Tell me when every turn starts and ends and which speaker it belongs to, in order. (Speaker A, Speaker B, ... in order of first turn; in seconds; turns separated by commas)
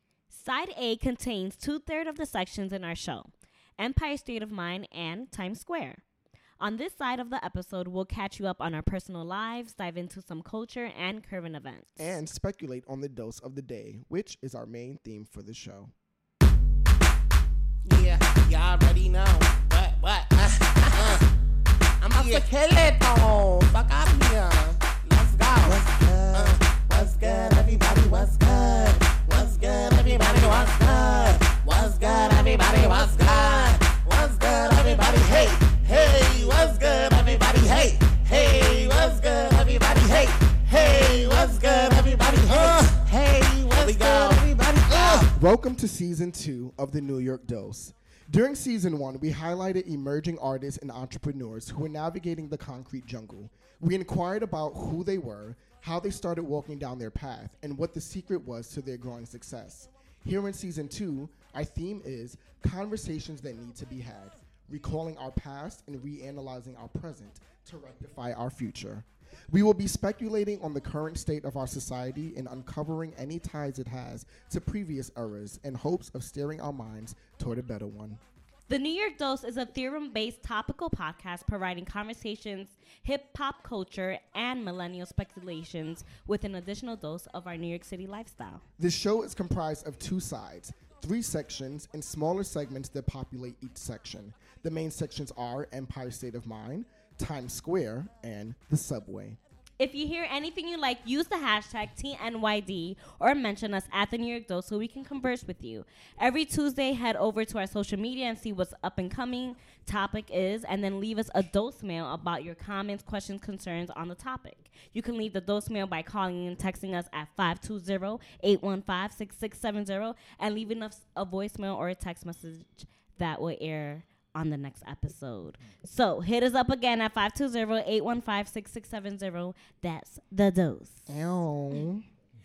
Speaker A: 0.3-6.0, Speaker A: 6.6-12.1, Speaker B: 12.0-15.9, Speaker C: 17.9-21.2, Speaker C: 22.0-45.3, Speaker B: 43.8-78.2, Speaker A: 78.7-88.6, Speaker B: 88.8-99.4, Speaker A: 99.8-131.1, Speaker B: 131.1-132.1